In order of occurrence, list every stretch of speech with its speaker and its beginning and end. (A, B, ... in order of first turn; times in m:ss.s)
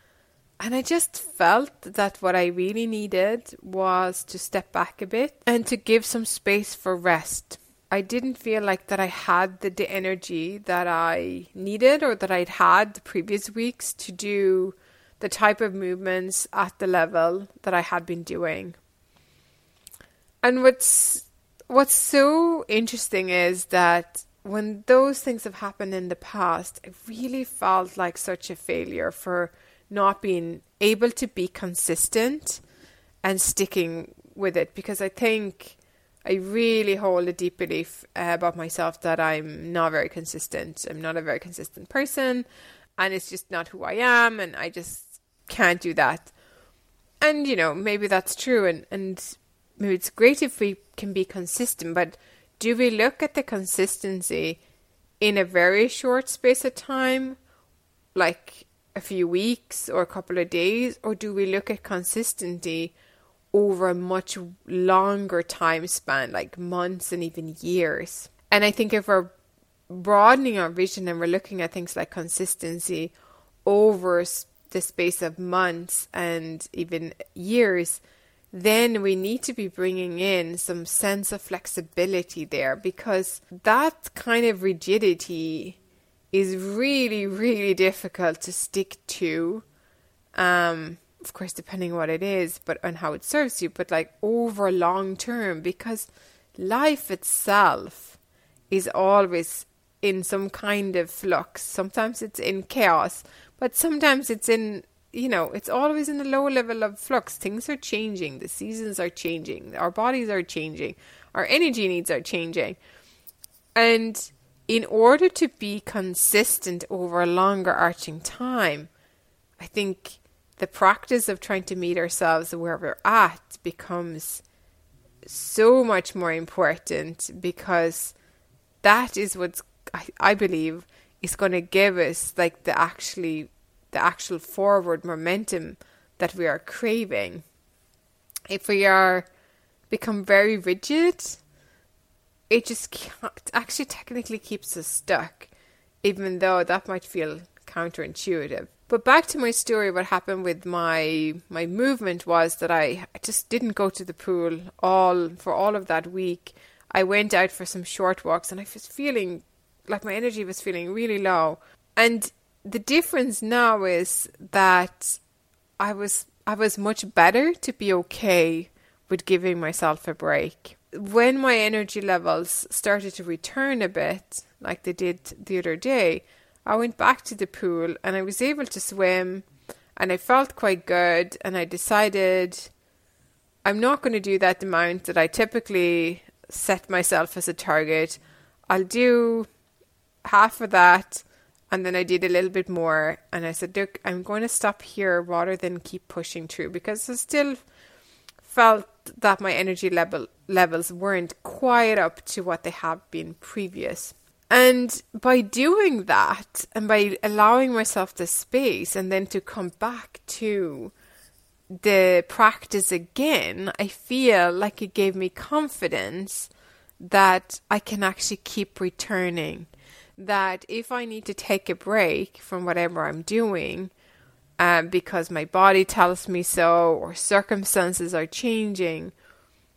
0:00.6-0:18.8 A
0:20.4-0:32.6 A
0:33.2-0:42.4 A
0:43.0-0:46.3 A
0:47.2-0:54.6 A
0:55.2-0:57.4 A
0:58.1-1:02.9 A
1:03.5-1:09.3 A
1:09.9-1:13.1 A
1:13.6-1:25.8 A
1:26.3-1:29.6 A
1:30.3-1:38.2 A
1:38.7-1:52.8 A
1:53.8-1:58.9 A
1:59.6-2:04.4 A
2:05.2-2:08.1 A
2:08.8-2:17.4 A
2:18.5-2:19.3 A
2:19.9-2:21.4 A
2:22.5-2:25.5 A
2:26.0-2:45.2 A
2:45.8-3:02.7 A
3:03.6-3:08.2 A
3:08.7-3:09.5 A
3:10.2-3:17.6 A
3:18.4-3:30.9 A
3:31.7-3:43.9 A
3:44.6-3:49.1 A